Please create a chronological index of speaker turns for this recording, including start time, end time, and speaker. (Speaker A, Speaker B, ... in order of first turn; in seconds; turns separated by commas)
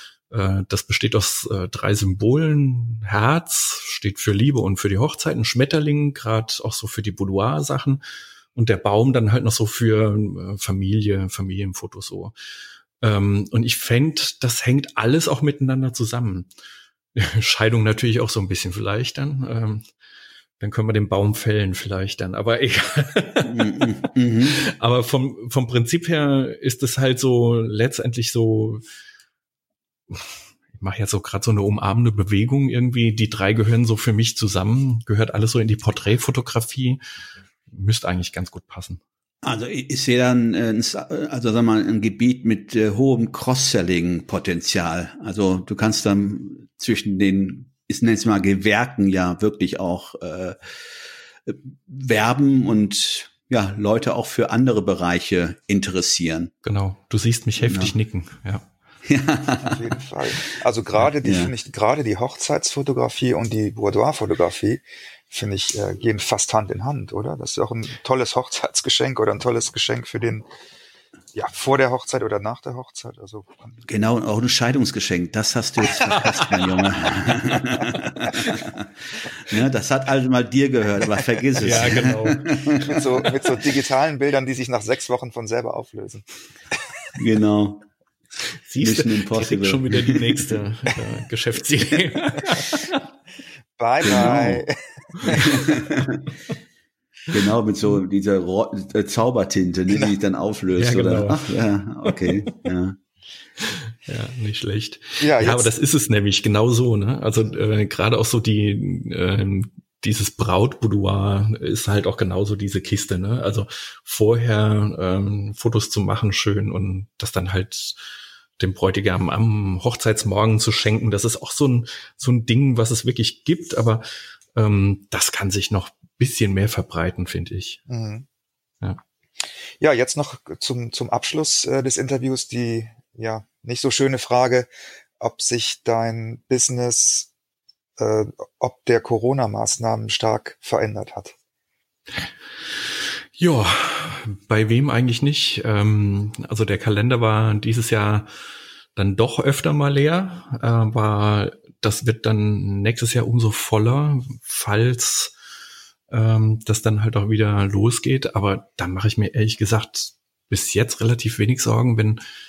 Speaker A: 0.3-8.0, Speaker A: 8.5-12.3, Speaker A: 13.0-16.5, Speaker A: 17.1-19.8, Speaker A: 20.6-23.8, Speaker B: 23.4-24.6, Speaker A: 24.5-28.8, Speaker A: 30.1-37.0, Speaker A: 37.7-39.0, Speaker B: 39.4-50.6, Speaker B: 51.5-56.5, Speaker A: 56.6-58.7, Speaker B: 57.6-57.9, Speaker B: 59.0-59.8, Speaker C: 59.6-70.5, Speaker B: 61.2-61.5, Speaker C: 71.3-73.8, Speaker B: 73.8-78.9, Speaker A: 75.9-76.8, Speaker B: 79.4-83.0, Speaker A: 81.6-82.5, Speaker C: 82.8-86.2, Speaker B: 87.2-87.9, Speaker A: 88.6-92.8, Speaker B: 88.8-90.5, Speaker C: 93.8-95.7, Speaker B: 94.0-94.7, Speaker B: 95.3-96.3, Speaker B: 97.3-103.0, Speaker A: 100.8-102.4, Speaker A: 103.6-118.0, Speaker C: 105.2-105.7, Speaker A: 118.6-127.8, Speaker C: 127.9-128.2, Speaker C: 129.8-137.3, Speaker C: 138.0-141.3, Speaker A: 143.4-148.3, Speaker A: 148.9-155.3, Speaker A: 156.1-162.2